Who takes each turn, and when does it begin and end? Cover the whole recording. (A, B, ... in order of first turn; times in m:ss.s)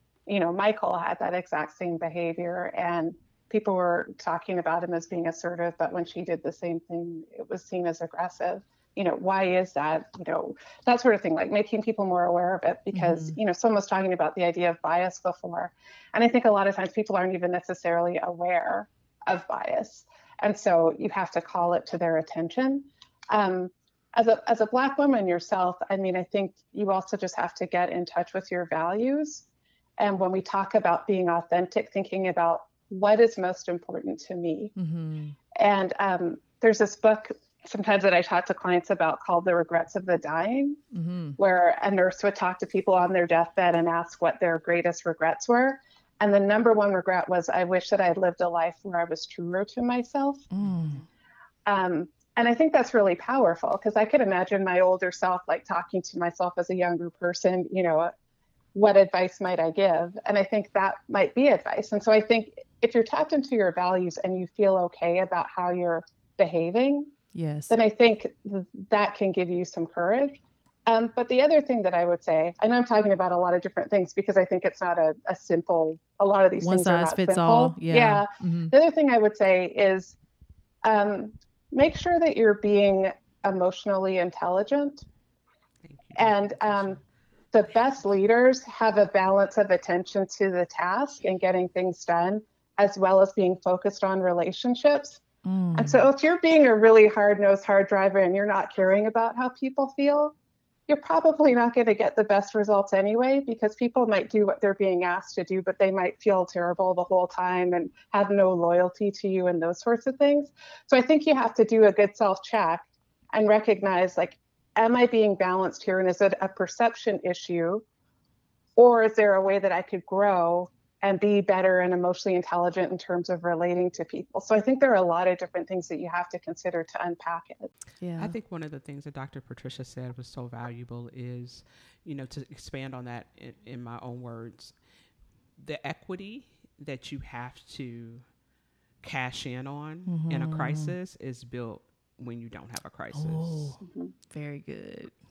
0:00.3-0:29.5 A
0:12.9-0:13.4 B
0:30.0-0:34.7 A
0:34.8-0:35.4 B
0:35.6-0:40.8 A
0:40.9-0:41.4 B
0:41.4-0:50.5 A
0:50.5-0:51.0 B
0:51.7-0:58.1 A
0:58.8-1:07.1 A
1:07.3-1:07.8 B
1:07.7-1:20.2 A
1:16.6-1:18.7 B
1:20.8-1:25.0 A
1:25.8-1:27.0 C
1:26.2-1:27.0 A
1:27.5-1:35.2 A
1:35.4-1:36.1 B
1:35.8-1:40.4 A
1:40.9-1:57.8 A
1:58.8-2:07.7 A
2:08.0-2:08.4 B
2:08.2-2:14.8 C
2:15.6-2:18.2 C
2:19.0-2:23.7 C
2:20.1-2:21.0 B
2:23.1-2:23.8 B
2:23.8-2:24.1 A
2:24.3-2:25.1 B